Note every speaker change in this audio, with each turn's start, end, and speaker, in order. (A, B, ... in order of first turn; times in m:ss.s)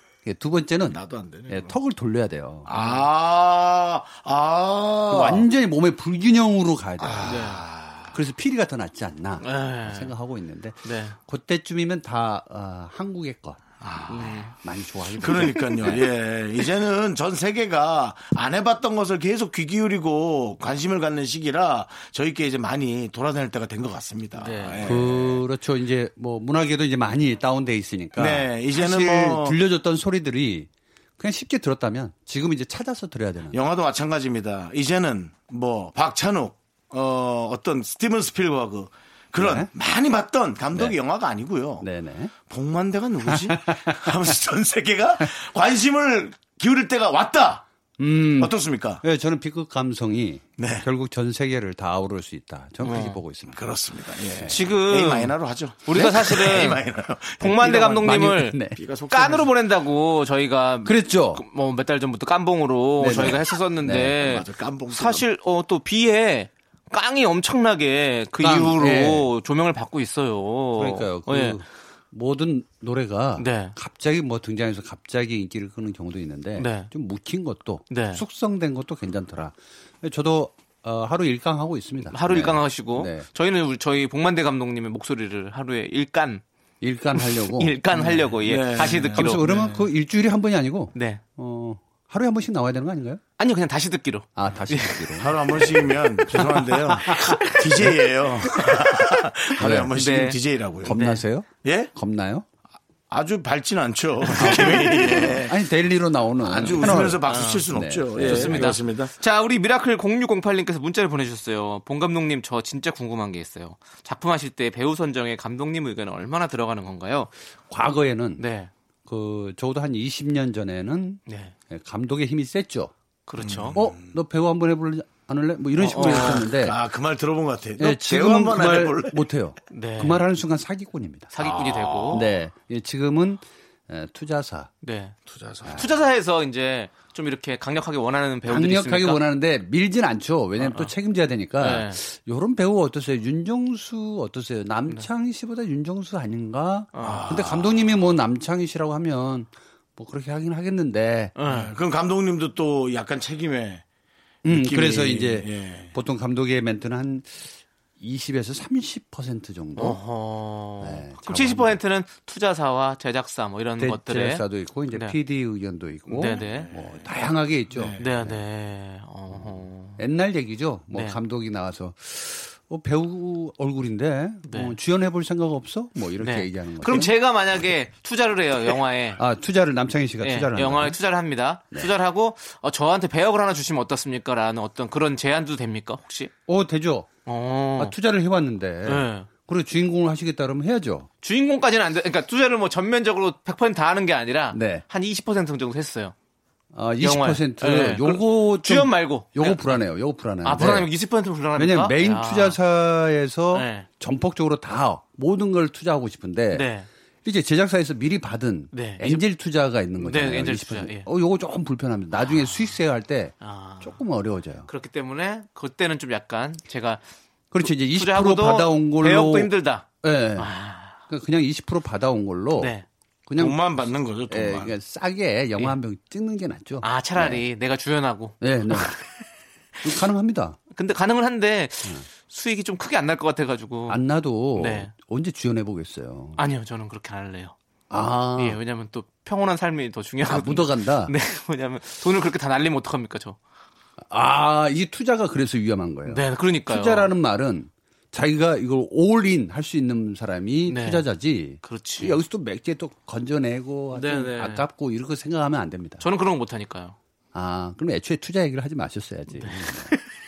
0:00.2-0:02.7 A
0:00.8-0:01.7 B
0:02.6-0:05.5 B
0:02.7-0:03.0 C
0:05.1-0:07.4 A
0:07.0-0:08.2 B
0:07.2-0:07.6 C
0:08.1-0:13.6 A
0:09.4-0:10.1 C
0:10.8-0:11.2 C
0:13.8-0:14.5 B
0:14.1-0:14.6 C
0:14.5-0:15.9 A
0:15.2-0:25.4 B
0:15.2-0:16.0 C
0:24.4-0:25.0 C
0:24.8-0:33.6 A
0:28.2-0:29.6 B
0:33.5-0:41.8 B
0:39.4-0:39.7 A
0:41.8-0:42.3 A
0:42.4-0:47.6 B
0:43.3-0:44.3 A
0:48.0-0:53.6 A
0:48.4-0:49.0 B
0:50.6-0:50.9 B
0:52.8-0:53.2 C
0:53.5-0:58.0 B
0:54.4-0:56.8 C
0:56.0-0:56.3 A
0:57.4-0:58.6 C
0:57.5-0:58.8 A
0:58.7-0:59.5 B
0:59.1-1:11.6 C
1:00.8-1:01.4 A
1:03.0-1:04.2 A
1:03.0-1:05.2 B
1:08.4-1:09.3 A
1:10.8-1:23.3 A
1:13.4-1:13.8 C
1:16.6-1:16.9 C
1:17.9-1:18.2 C
1:22.1-1:26.4 C
1:26.8-1:28.3 A
1:27.2-1:29.6 C
1:28.1-1:29.8 B
1:28.8-1:33.2 A
1:30.9-1:31.2 C
1:33.4-1:35.8 C
1:34.4-1:35.8 A
1:35.2-1:41.0 B
1:36.3-1:37.9 C
1:36.4-1:37.9 A
1:39.6-1:39.9 A
1:39.9-1:41.2 C
1:40.8-1:42.4 A
1:41.6-1:41.9 B
1:43.1-1:45.6 B
1:44.2-1:45.4 C
1:44.4-1:48.7 A
1:46.4-1:49.1 B
1:46.7-1:57.3 C
1:57.7-1:58.4 A
1:58.4-1:58.7 C
1:59.0-2:02.9 A
2:01.3-2:01.5 C
2:03.2-2:03.8 C
2:03.4-2:04.1 B
2:03.7-2:06.8 A
2:05.8-2:09.2 B
2:05.8-2:06.4 C
2:07.8-2:11.3 A
2:09.7-2:10.2 C
2:11.3-2:12.3 C
2:11.4-2:12.3 B
2:12.1-2:14.7 A
2:14.8-2:15.1 C
2:15.3-2:15.9 B
2:15.7-2:19.2 C
2:18.5-2:31.4 A
2:20.6-2:20.9 C
2:21.6-2:22.0 C
2:26.9-2:27.3 C
2:27.0-2:28.1 B
2:31.4-2:31.7 C
2:31.4-2:33.8 B
2:34.4-2:35.9 B
2:34.4-2:40.0 A
2:39.8-2:45.2 C
2:40.8-2:41.8 A
2:43.8-2:48.3 A
2:46.1-2:46.7 C
2:46.4-2:47.0 B
2:47.7-2:48.2 B
2:48.0-2:50.0 C
2:50.0-2:57.1 A
2:50.9-2:51.2 C
2:54.5-2:54.7 C
2:56.2-2:59.2 C
2:59.2-3:01.0 A
3:00.2-3:06.3 C
3:06.5-3:07.1 A
3:07.2-3:07.9 C
3:07.8-3:11.1 A
3:08.8-3:09.3 C
3:11.2-3:16.1 C
3:14.5-3:14.8 A
3:16.7-3:20.9 A
3:17.0-3:19.8 C
3:20.4-3:22.6 C
3:21.6-3:26.7 A
3:23.5-3:23.9 C
3:26.5-3:26.9 C
3:27.2-3:34.7 A
3:28.7-3:29.2 C
3:30.0-3:31.1 C
3:33.4-3:34.0 C
3:34.6-3:37.0 C
3:37.5-3:39.5 A
3:37.6-3:41.0 C
3:40.0-3:40.5 A
3:41.1-3:42.7 A
3:42.6-3:42.8 C
3:43.3-3:43.6 A
3:43.4-3:44.7 B
3:44.3-3:47.4 A
3:46.8-3:49.0 C
3:48.4-3:49.0 A
3:49.8-3:50.6 A
3:50.7-3:54.0 C
3:53.9-3:56.4 A
3:54.5-3:54.9 C
3:56.4-3:57.5 C
3:57.9-3:58.6 A
3:58.4-4:03.4 C
4:00.2-4:01.1 A
4:04.1-4:16.0 A
4:06.0-4:07.1 C
4:10.6-4:11.0 C
4:11.6-4:12.2 C
4:13.9-4:14.6 C
4:16.0-4:17.0 C
4:17.3-4:19.9 A
4:19.3-4:20.0 C